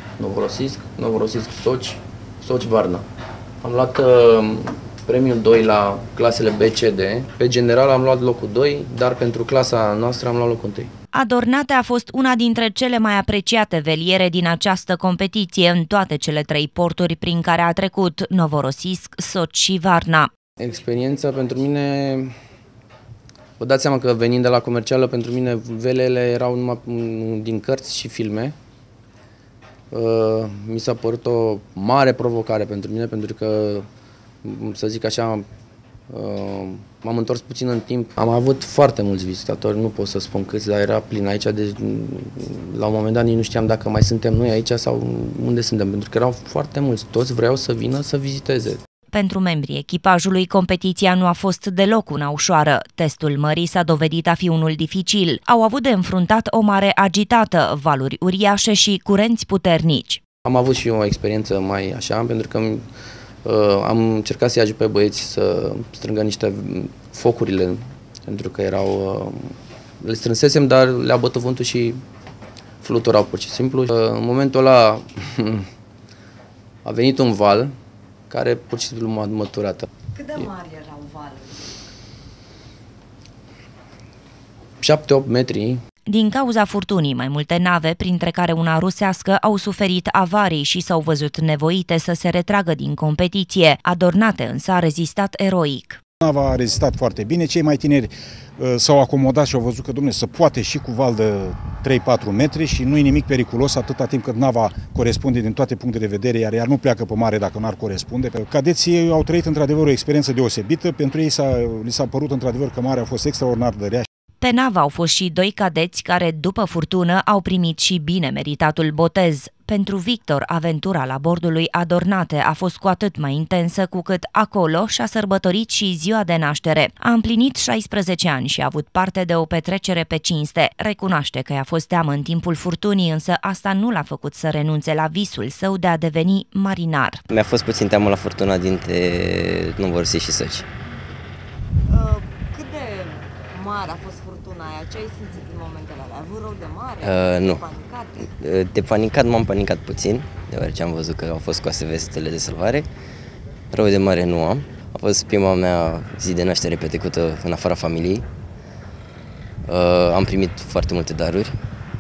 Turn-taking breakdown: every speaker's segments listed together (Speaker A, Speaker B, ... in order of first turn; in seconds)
Speaker A: 0.2-3.0, 3.6-10.9, 20.6-22.3, 23.6-28.6, 29.9-33.9, 34.4-35.4, 36.1-48.8, 60.4-62.8, 63.4-72.0, 72.8-75.7, 76.8-77.7, 78.3-80.5, 84.8-85.8
Speaker B: 11.1-20.3, 49.1-60.2, 86.1-96.0, 114.4-137.2
Speaker C: 80.2-81.6, 141.9-148.3
Speaker D: 96.2-114.0
Speaker E: 137.3-140.7, 147.0-147.7, 148.2-152.9, 153.7-158.2, 159.7-161.6